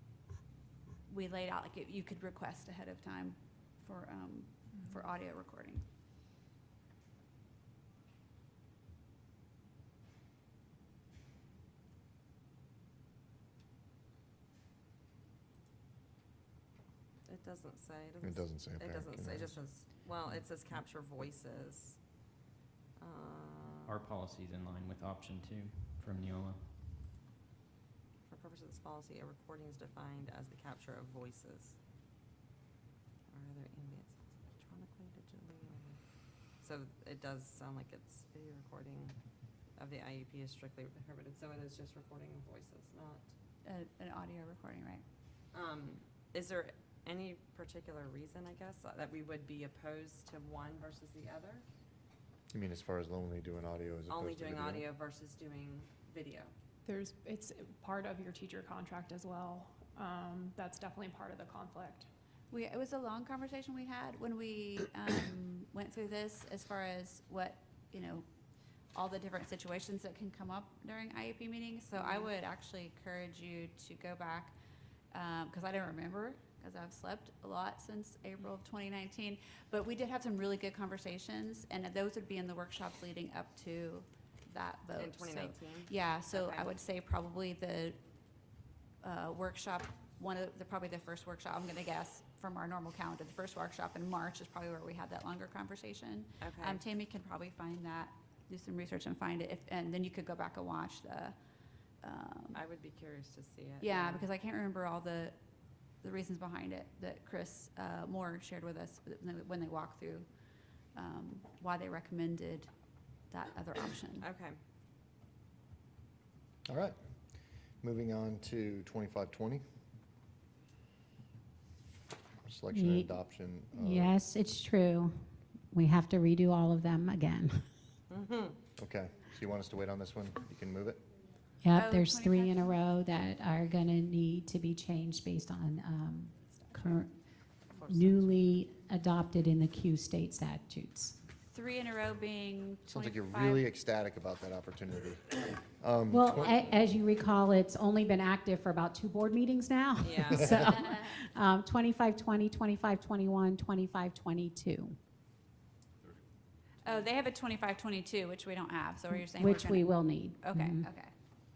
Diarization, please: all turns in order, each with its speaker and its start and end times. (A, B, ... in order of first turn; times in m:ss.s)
0:01.1-0:05.8 A
0:17.3-0:22.0 B
0:18.2-0:19.5 C
0:23.0-0:24.0 B
0:23.8-0:26.9 D
0:28.3-0:31.8 B
0:33.3-0:36.0 B
0:36.6-0:39.2 B
0:39.8-0:43.3 B
0:43.6-0:45.0 A
0:45.5-0:51.6 B
0:52.5-0:54.9 C
0:54.1-0:56.5 B
0:56.8-1:02.1 E
1:02.5-1:08.2 A
1:08.9-1:14.6 A
1:15.1-1:28.0 A
1:25.0-1:26.8 B
1:29.0-1:41.3 A
1:36.4-1:36.8 B
1:42.0-1:42.6 A
1:42.5-1:44.3 B
1:43.8-1:45.4 A
1:46.0-1:50.3 A
1:50.9-1:52.7 A
1:53.3-1:54.2 A
1:54.2-1:54.6 B
1:56.7-1:57.0 C
1:57.8-1:59.6 C
2:02.4-2:04.2 C
2:02.7-2:03.1 F
2:03.7-2:07.7 F
2:08.1-2:08.6 B
2:08.8-2:11.0 C
2:11.6-2:17.1 F
2:11.7-2:12.8 A
2:17.7-2:18.4 B
2:17.9-2:21.2 F
2:21.5-2:23.7 A
2:22.9-2:26.6 C
2:26.1-2:35.0 F
2:30.0-2:30.7 B
2:36.8-2:41.1 A
2:39.1-2:40.9 F